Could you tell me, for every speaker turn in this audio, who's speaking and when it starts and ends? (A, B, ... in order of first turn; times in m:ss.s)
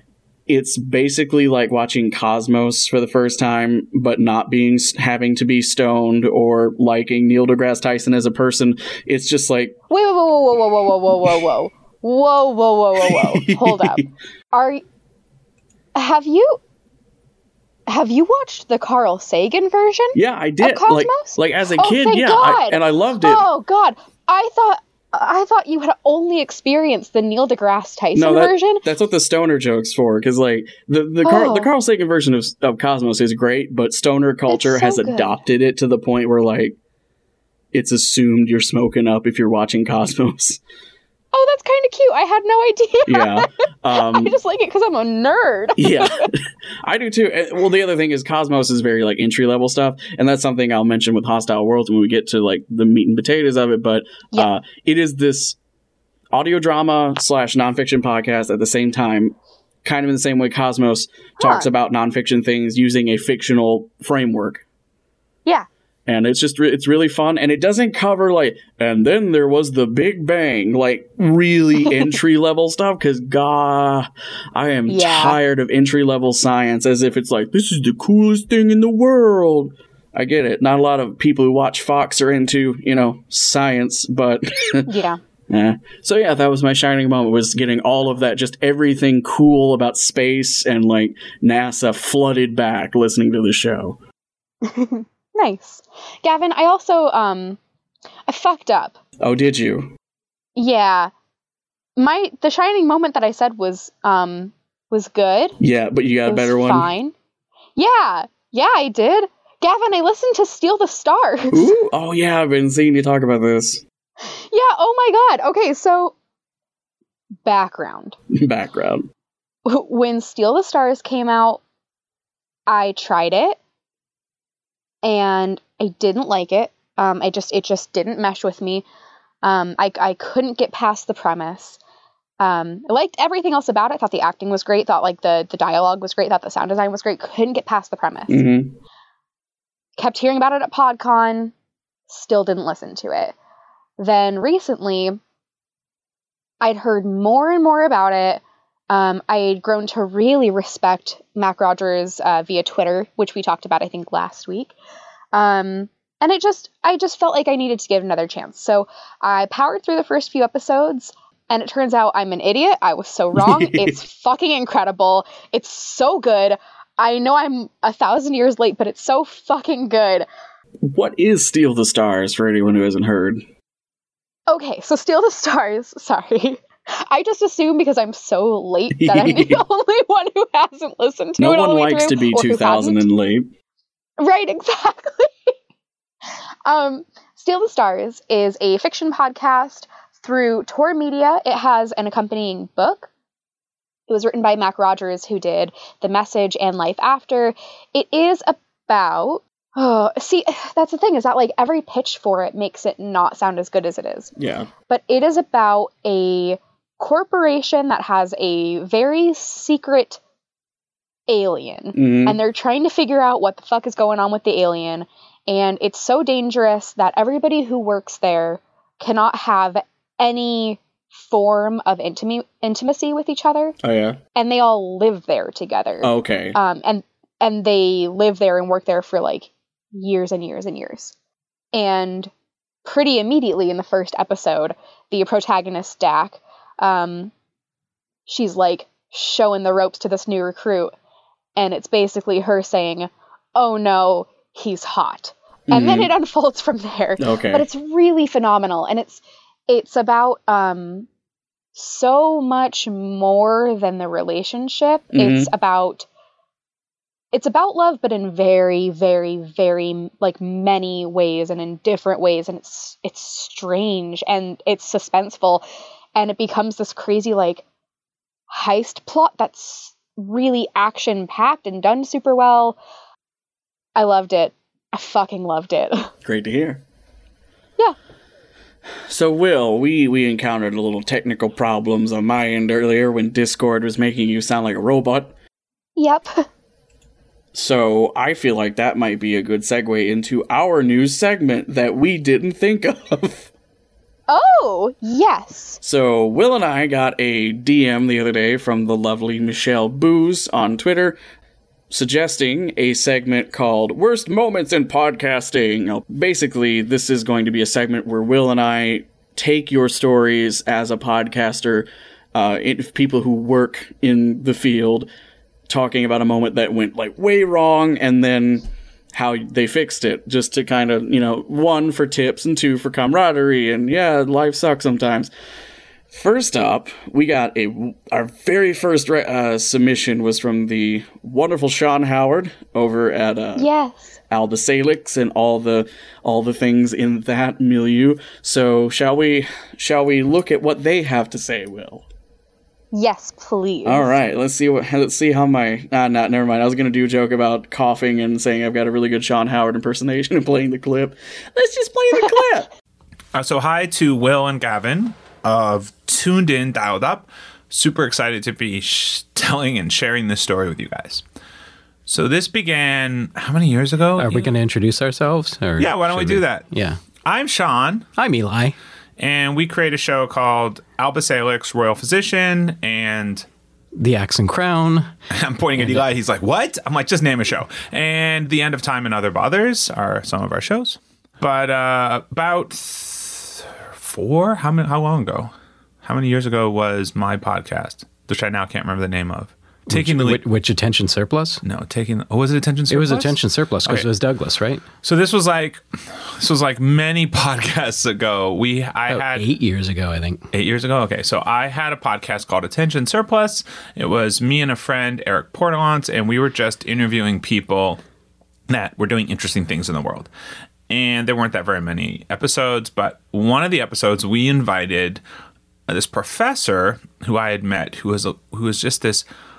0:00.5-0:09.8 A
0:09.9-0:14.8 B
0:13.0-0:14.1 A
0:16.0-0:16.6 B
0:17.9-0:28.8 B
0:20.2-0:23.4 A
0:28.2-0:36.8 A
0:31.2-0:31.7 B
0:34.5-0:35.4 B
0:37.7-0:40.6 A
0:41.3-0:46.3 B
0:43.1-0:44.4 A
0:45.8-0:55.6 A
0:56.3-1:04.6 A
1:01.4-1:01.7 B
1:06.1-1:24.9 A
1:14.9-1:15.4 B
1:24.9-1:25.2 B
1:25.5-1:34.0 A
1:34.6-1:37.6 B
1:38.3-1:39.0 B
1:39.2-1:39.9 A
1:40.6-1:41.1 B
1:42.0-1:45.6 B
1:45.6-1:46.9 A
1:46.3-1:47.1 B
1:47.8-1:51.7 B
1:51.5-1:53.8 A
1:54.3-1:56.2 B
1:57.4-1:58.2 B
1:58.3-1:59.1 A
1:59.7-2:01.6 B
2:02.7-2:03.6 B
2:05.0-2:08.8 B
2:09.4-2:11.8 B
2:12.4-2:18.4 B
2:18.3-2:18.8 A
2:20.0-2:21.5 B
2:22.1-2:23.4 B
2:24.0-2:25.2 B
2:26.6-2:34.7 B
2:35.3-2:50.3 B
2:43.4-2:44.0 A
2:50.8-2:53.4 A
2:54.5-3:03.0 B
2:58.9-2:59.6 A
3:01.4-3:03.5 A
3:04.2-3:05.5 B
3:06.7-3:13.1 B
3:14.1-3:24.3 B
3:24.4-3:24.7 A
3:24.9-3:30.2 B
3:31.3-3:43.8 B
3:32.0-3:32.4 A
3:43.8-3:44.2 A
3:44.4-3:51.1 B
3:46.0-3:46.6 A
3:51.7-3:52.3 B
3:52.8-3:57.3 B
3:58.3-4:00.9 B
4:01.6-4:11.1 B
4:05.7-4:06.1 A
4:07.2-4:07.7 A
4:11.8-4:16.1 B
4:15.1-4:15.5 A
4:17.3-4:25.6 B
4:26.2-4:27.6 B
4:28.5-4:32.8 B
4:34.0-4:36.1 B
4:36.2-4:36.8 A
4:39.1-4:45.4 A
4:46.0-4:46.5 B
4:47.5-4:53.5 A
4:54.3-4:55.8 B
4:55.8-5:01.2 A
5:01.9-5:15.1 A
5:15.7-5:25.3 A
5:26.1-5:33.7 A
5:33.6-5:34.2 B
5:34.3-5:42.0 A
5:42.9-5:44.1 B
5:43.8-5:52.7 A
5:53.3-6:01.2 C
6:02.1-6:04.5 C
6:04.2-6:07.0 D
6:05.8-6:06.7 C
6:07.2-6:08.1 C
6:08.2-6:08.8 D
6:09.2-6:13.5 C
6:14.0-6:15.1 D
6:15.3-6:30.4 C
6:29.9-6:31.6 D
6:31.6-6:34.1 C
6:32.9-6:34.8 D
6:35.0-6:39.5 C
6:39.1-6:40.4 D
6:40.5-6:48.0 C
6:48.7-6:50.3 C
6:50.9-6:55.2 C
6:55.9-6:59.2 C